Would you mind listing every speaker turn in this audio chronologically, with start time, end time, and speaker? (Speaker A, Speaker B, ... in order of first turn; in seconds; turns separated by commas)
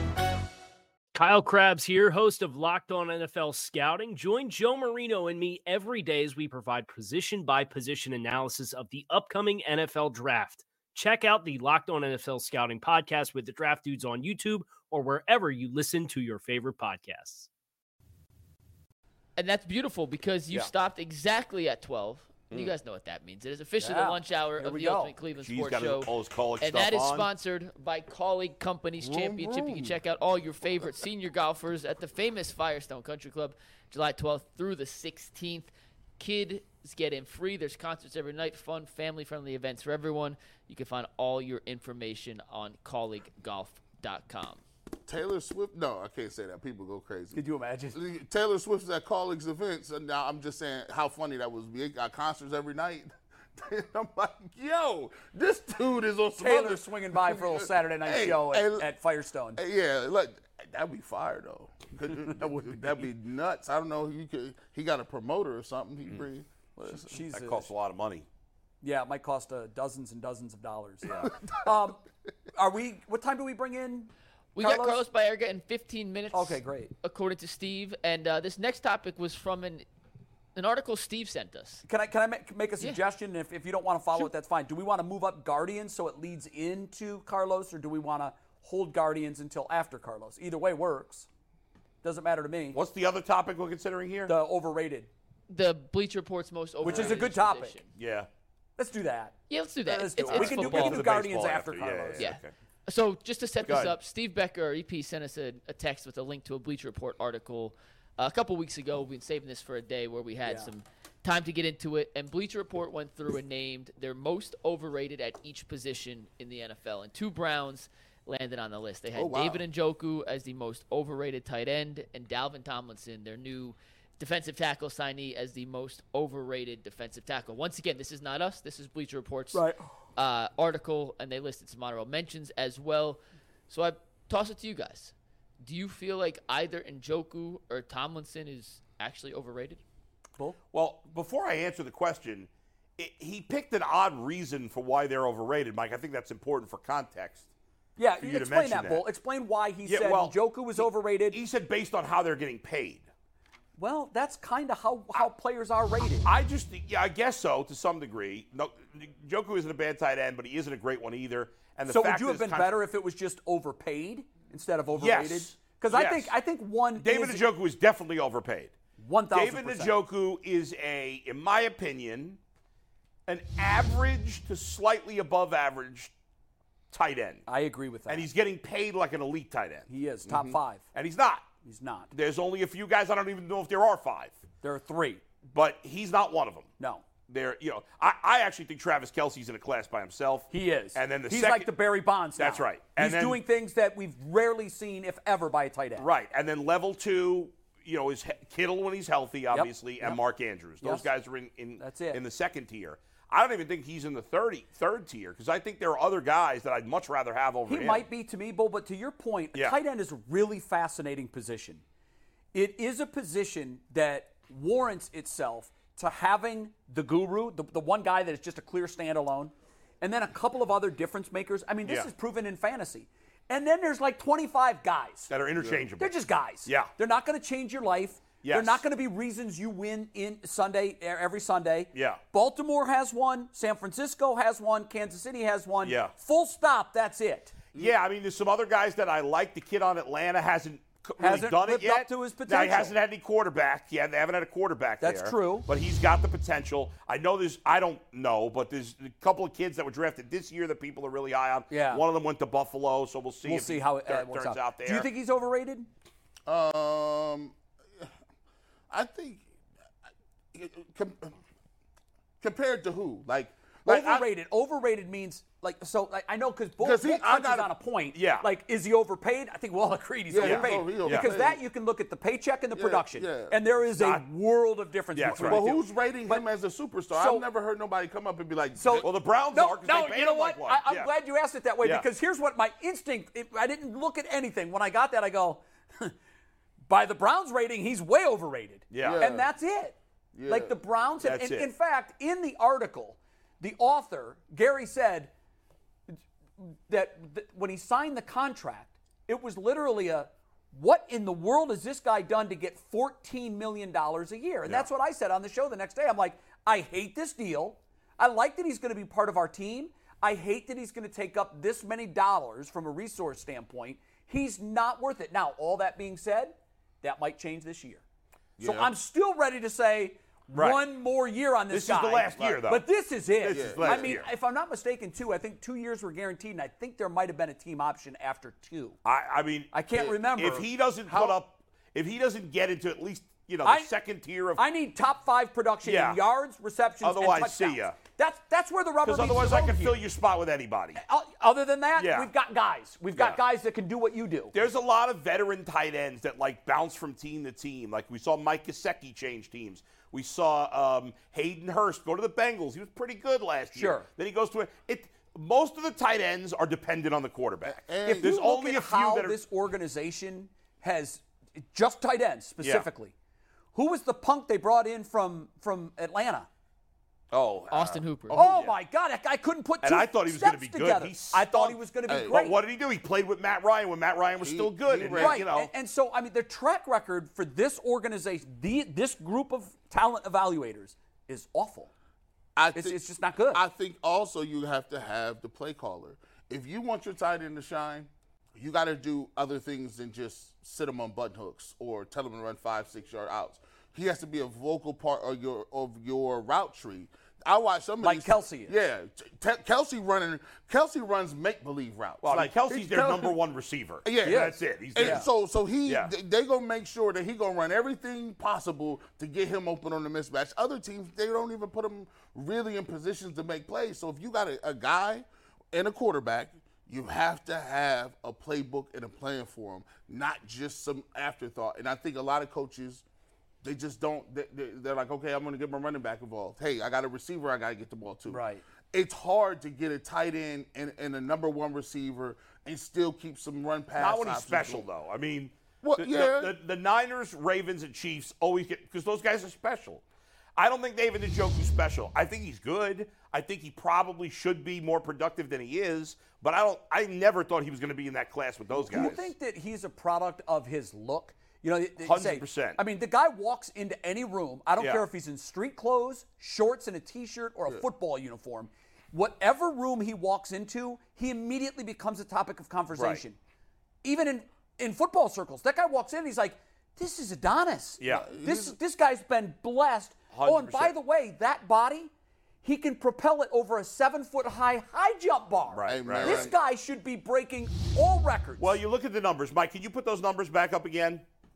Speaker A: 1.1-17.5, Speaker B: 19.4-44.6, Speaker C: 23.8-25.1, Speaker D: 25.4-27.2, Speaker E: 29.0-30.0, Speaker E: 45.0-47.4, Speaker C: 47.3-48.0, Speaker E: 47.9-58.9, Speaker C: 56.4-59.6, Speaker E: 59.5-67.1, Speaker C: 62.4-62.8, Speaker C: 66.8-67.7, Speaker D: 67.3-68.3, Speaker C: 68.8-72.0, Speaker C: 72.5-75.0, Speaker B: 74.5-79.8, Speaker C: 76.3-76.9, Speaker B: 80.5-81.8, Speaker C: 81.8-91.3, Speaker C: 92.0-92.8, Speaker D: 92.7-94.3, Speaker C: 94.2-95.1, Speaker B: 95.5-97.9, Speaker C: 96.8-97.8, Speaker D: 96.8-97.2, Speaker D: 98.0-98.3, Speaker C: 98.8-102.2, Speaker B: 99.5-101.0, Speaker D: 100.2-102.5, Speaker B: 102.2-129.6, Speaker D: 103.6-103.9, Speaker C: 110.4-110.7, Speaker E: 119.1-119.6, Speaker C: 129.5-129.8, Speaker B: 130.2-139.8, Speaker D: 140.7-147.5, Speaker C: 148.0-151.4, Speaker D: 148.2-149.0, Speaker D: 149.8-153.1, Speaker C: 153.8-156.3, Speaker D: 156.2-162.7, Speaker C: 161.9-167.4, Speaker D: 164.9-166.3, Speaker D: 166.9-168.7, Speaker C: 169.0-169.9, Speaker D: 169.3-172.4, Speaker D: 173.3-176.1, Speaker D: 176.9-177.4, Speaker C: 177.4-178.3, Speaker D: 178.1-179.9, Speaker C: 179.9-180.8, Speaker E: 180.2-180.6, Speaker D: 180.9-181.5, Speaker C: 181.6-182.1, Speaker D: 182.1-184.4, Speaker C: 184.6-185.2, Speaker D: 185.5-186.7, Speaker C: 186.8-187.0, Speaker D: 187.3-191.7, Speaker C: 190.5-196.1, Speaker D: 192.4-193.4, Speaker D: 196.0-208.1, Speaker C: 199.5-200.2, Speaker C: 200.8-201.1, Speaker C: 201.8-202.2, Speaker C: 207.7-211.8, Speaker C: 212.5-225.3, Speaker D: 225.3-226.1, Speaker E: 225.6-225.9, Speaker C: 226.0-237.5, Speaker D: 226.6-226.9, Speaker D: 228.4-228.8, Speaker D: 231.9-232.2, Speaker D: 235.8-236.1, Speaker D: 237.8-255.1, Speaker C: 241.2-243.0, Speaker C: 245.0-245.7, Speaker C: 251.7-252.0, Speaker C: 253.4-255.9, Speaker E: 256.4-258.1, Speaker E: 258.9-259.4, Speaker E: 260.5-261.3, Speaker E: 262.4-264.3, Speaker C: 263.9-276.4, Speaker E: 266.8-267.7, Speaker D: 268.1-268.5, Speaker E: 270.3-271.6, Speaker D: 270.4-271.3, Speaker E: 272.7-273.7, Speaker D: 273.9-274.2, Speaker D: 275.1-275.6, Speaker E: 275.3-279.1, Speaker C: 277.1-277.4, Speaker C: 278.8-286.1, Speaker D: 279.0-281.1, Speaker D: 281.8-282.1, Speaker C: 286.9-295.3, Speaker D: 288.9-289.2, Speaker E: 289.0-289.5, Speaker E: 290.3-290.8, Speaker D: 291.2-291.7, Speaker C: 296.1-318.0, Speaker E: 318.6-318.9, Speaker C: 318.6-329.0, Speaker D: 320.5-320.8, Speaker D: 321.7-322.9, Speaker D: 323.4-324.3, Speaker E: 323.5-324.2, Speaker D: 329.0-334.6, Speaker C: 329.7-331.4, Speaker C: 333.6-333.9, Speaker C: 334.6-340.0, Speaker D: 335.8-336.2, Speaker D: 337.0-338.0, Speaker D: 339.0-341.0, Speaker C: 341.0-344.5, Speaker D: 342.0-342.3, Speaker D: 343.1-343.4, Speaker D: 344.5-359.4, Speaker C: 353.7-354.1, Speaker E: 357.6-358.4, Speaker C: 358.0-363.1, Speaker C: 363.7-366.5, Speaker D: 367.3-368.7, Speaker B: 367.7-368.4, Speaker C: 368.3-372.6, Speaker D: 369.8-375.7, Speaker E: 372.1-372.3, Speaker E: 374.4-375.4, Speaker C: 374.9-381.9, Speaker E: 382.6-402.5, Speaker C: 382.7-383.6, Speaker C: 398.0-398.8, Speaker D: 402.2-405.3, Speaker C: 402.7-403.4, Speaker E: 404.0-423.0, Speaker C: 404.2-405.2, Speaker D: 405.9-406.1, Speaker E: 423.6-434.9, Speaker C: 428.3-428.6, Speaker D: 433.9-440.0, Speaker E: 435.8-436.6, Speaker D: 440.6-449.3, Speaker C: 448.8-463.4, Speaker D: 452.0-452.8, Speaker D: 454.8-455.0, Speaker D: 462.9-463.2, Speaker C: 464.0-472.1, Speaker D: 468.0-468.3, Speaker E: 468.1-468.8, Speaker D: 470.3-470.9, Speaker C: 472.6-478.8, Speaker D: 475.7-476.5, Speaker E: 475.9-476.5, Speaker D: 478.6-481.2